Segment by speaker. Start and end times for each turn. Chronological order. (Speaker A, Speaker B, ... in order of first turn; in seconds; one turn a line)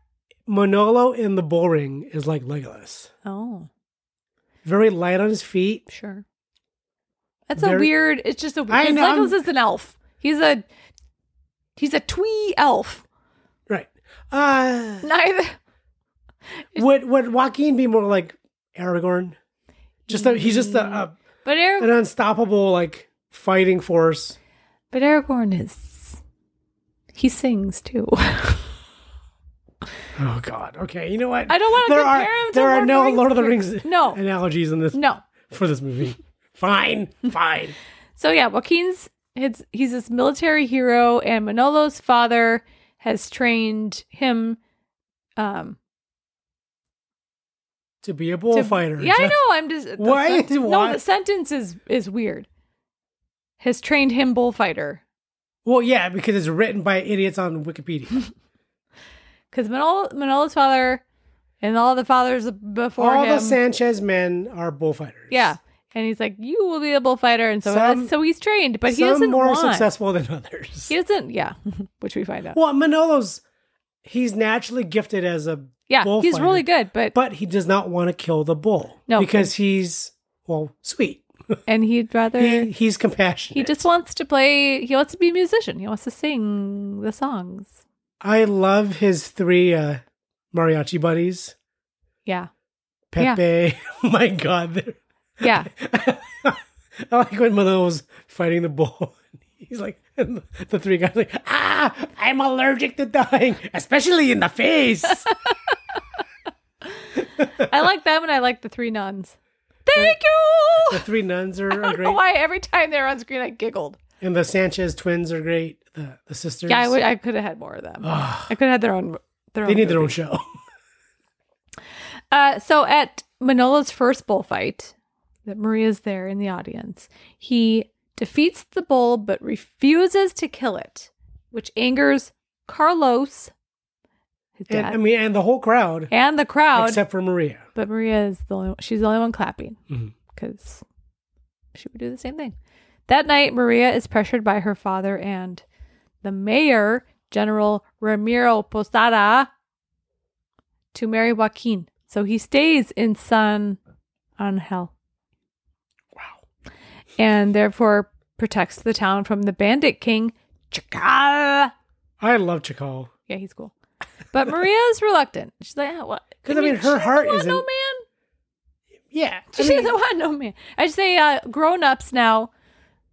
Speaker A: 0.5-3.1
Speaker B: 3.2-3.7
Speaker A: 4.6-5.8
Speaker B: 5.9-6.2
Speaker B: 7.5-10.6
Speaker A: 7.5-7.9
Speaker A: 8.7-9.4
Speaker B: 11.8-13.0
Speaker A: 13.7-15.1
Speaker B: 15.0-15.6
Speaker A: 16.8-19.4
Speaker A: 20.1-21.1
Speaker B: 20.1-21.9
Speaker A: 21.8-24.4
Speaker B: 24.9-26.2
Speaker B: 27.1-28.7
Speaker A: 30.1-37.8
Speaker B: 31.5-34.2
Speaker B: 34.9-35.2
Speaker B: 38.2-44.6
Speaker B: 45.4-45.8
Speaker A: 48.0-49.4
Speaker B: 48.5-52.5
Speaker A: 50.0-51.0
Speaker B: 53.6-55.0
Speaker A: 55.6-58.2
Speaker B: 59.5-61.0
Speaker B: 61.6-63.6
Speaker A: 63.0-65.5
Speaker B: 65.3-69.9
Speaker A: 67.6-68.1
Speaker A: 68.9-70.9
Speaker B: 70.9-72.6
Speaker A: 72.5-73.4
Speaker A: 74.0-81.3
Speaker B: 75.9-77.1
Speaker B: 79.1-79.5
Speaker B: 81.7-82.7
Speaker A: 82.4-83.8
Speaker B: 83.5-87.8
Speaker A: 88.2-91.5
Speaker A: 93.1-105.3
Speaker B: 95.4-95.7
Speaker A: 107.4-107.7
Speaker B: 107.6-111.0
Speaker A: 109.9-110.2
Speaker A: 110.8-112.2
Speaker B: 111.7-114.0
Speaker A: 114.2-117.0
Speaker B: 116.7-120.1
Speaker A: 118.0-118.5
Speaker A: 119.6-120.4
Speaker B: 122.3-124.9
Speaker B: 125.4-133.5
Speaker B: 134.6-135.0
Speaker A: 134.7-136.1
Speaker B: 136.1-137.0
Speaker A: 136.7-137.7
Speaker B: 137.7-139.8
Speaker A: 139.9-140.1
Speaker B: 140.3-140.8
Speaker B: 141.7-142.5
Speaker B: 143.1-145.6
Speaker B: 146.2-149.5
Speaker B: 150.9-153.8
Speaker B: 154.4-154.9
Speaker B: 157.2-161.7
Speaker A: 162.2-163.1
Speaker B: 163.3-163.7
Speaker B: 164.3-168.0
Speaker A: 166.4-167.7
Speaker A: 169.1-169.9
Speaker B: 169.5-172.5